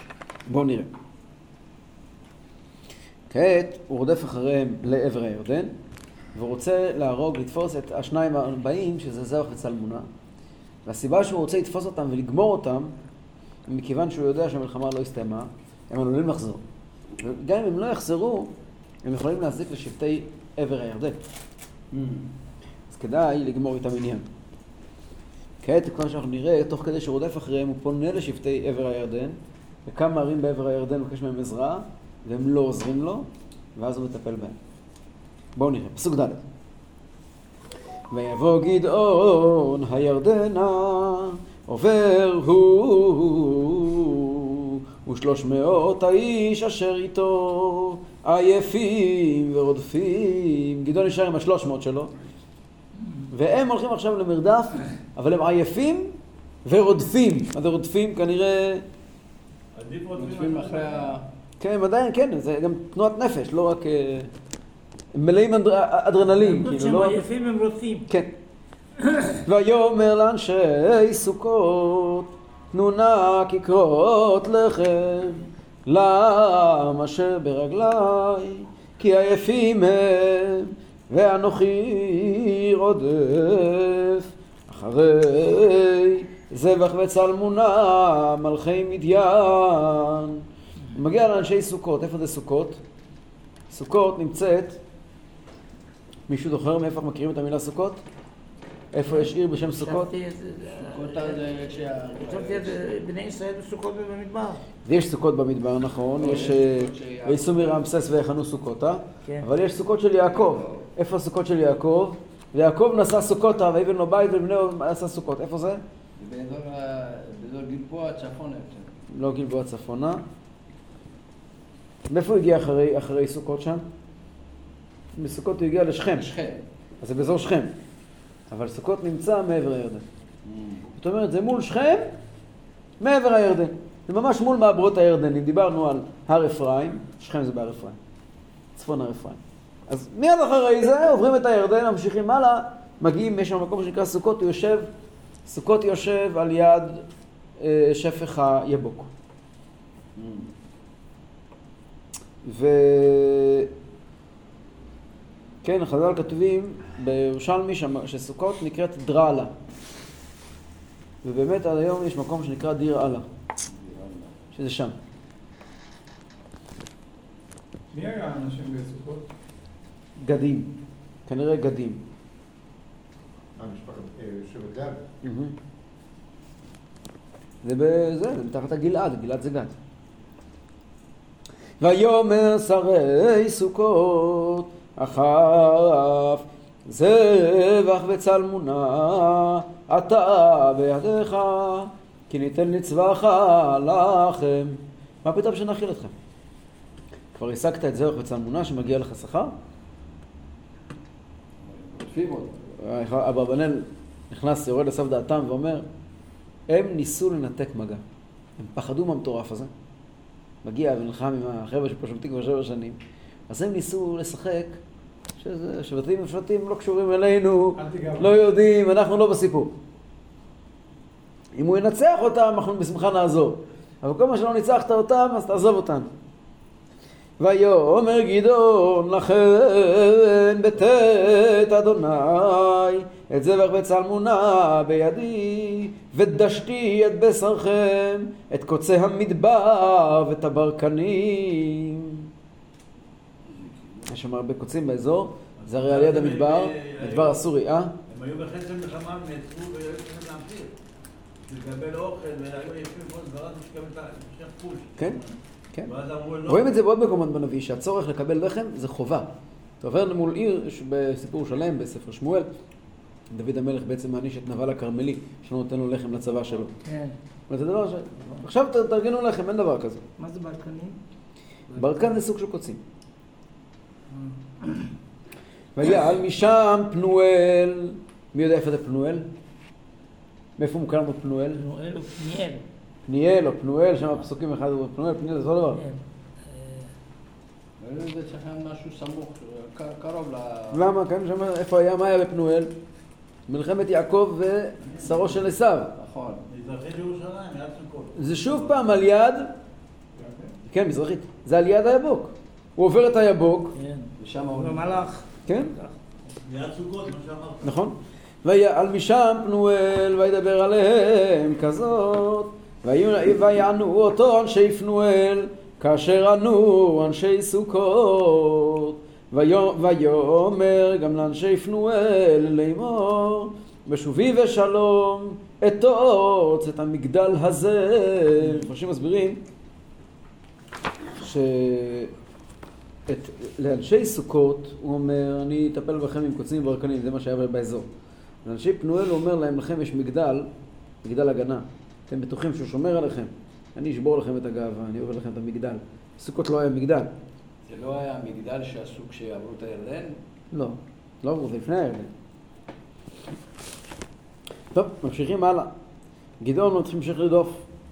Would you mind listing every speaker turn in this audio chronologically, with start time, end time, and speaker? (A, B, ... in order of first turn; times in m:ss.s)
0:00.5-0:00.9 A
0:03.3-0:05.7 A
0:06.3-0:10.1 A
0:10.8-0:12.9 A
0:13.7-0:16.6 A
0:17.2-0:18.5 A
0:19.0-0:21.2 A
0:21.9-0:22.3 B
0:22.9-0:24.2 A
0:25.6-0:34.6 A
0:35.6-0:36.4 A
0:38.1-0:52.1 A
0:53.0-0:53.3 C
0:53.3-0:58.8 A
0:59.7-1:01.1 D
1:00.1-1:01.2 B
1:01.6-1:04.3 A
1:05.1-1:07.2 A
1:06.3-1:08.1 C
1:09.0-1:09.4 C
1:09.4-1:30.4 A
1:30.9-1:32.8 A
1:33.7-1:34.8 A
1:36.3-1:38.0 A
1:38.9-1:40.1 A
1:39.7-1:41.4 C
1:40.7-1:42.8 B
1:42.2-1:44.6 C
1:44.8-1:55.8 A
1:46.1-1:47.9 B
1:50.2-1:50.8 B
1:56.2-1:59.0 B
1:59.1-2:00.2 A
2:02.1-2:03.8 A
2:05.1-2:06.3 A
2:06.0-2:06.6 B
2:07.0-2:07.7 A
2:08.5-2:10.0 A
2:10.4-2:10.8 B
2:10.9-2:12.1 A
2:13.0-2:18.0 A
2:18.8-2:24.9 A
2:25.4-2:27.0 A
2:27.6-2:29.1 A
2:30.2-2:30.5 B
2:32.4-2:33.7 A
2:35.6-2:39.5 A
2:41.2-2:43.3 A
2:43.7-2:44.3 B
2:44.5-2:44.9 A
2:47.9-2:49.2 E
2:50.2-2:50.7 A
2:51.3-2:52.0 A
2:53.6-2:55.0 E
2:55.2-2:55.5 A
2:57.6-2:59.8 A
3:01.8-3:16.1 A
3:17.3-3:19.5 A
3:21.6-3:22.6 B
3:22.8-3:25.8 A
3:26.7-3:28.0 A
3:28.6-3:29.7 A
3:30.6-3:33.0 A
3:33.5-3:34.8 A
3:35.4-3:39.7 A
3:37.8-3:38.3 E
3:41.5-3:46.1 A
3:47.4-4:02.2 A
4:03.5-4:04.1 B
4:04.1-4:07.9 A
4:05.6-4:07.4 D
4:08.1-4:10.7 D
4:11.5-4:15.3 D
4:15.8-4:16.7 D
4:16.4-4:19.3 A
4:19.8-4:22.5 A
4:23.3-4:26.7 A
4:26.8-4:27.1 C
4:27.5-4:30.0 A
4:30.2-4:31.0 C
4:31.7-4:32.8 A
4:34.2-4:34.8 C
4:35.8-4:39.3 A
4:40.6-4:41.6 A
4:41.6-4:42.6 C
4:43.1-4:45.8 A
4:45.7-4:46.9 C
4:47.8-4:50.9 B
4:50.7-4:52.7 A
4:53.5-4:55.9 A
4:56.0-4:56.4 B
4:56.5-4:58.9 D
4:58.2-4:59.5 A
5:00.2-5:00.4 E
5:00.6-5:03.7 A
5:03.7-5:06.0 C
5:04.2-5:05.1 B
5:05.5-5:05.7 A
5:06.4-5:07.8 D
5:07.6-5:29.4 A
5:31.2-5:32.1 A
5:33.1-5:37.9 A
5:38.4-5:40.5 A
5:41.0-5:47.1 A
5:47.7-5:50.2 B
5:50.5-5:52.1 A
5:54.7-5:55.7 A
5:56.4-5:57.6 A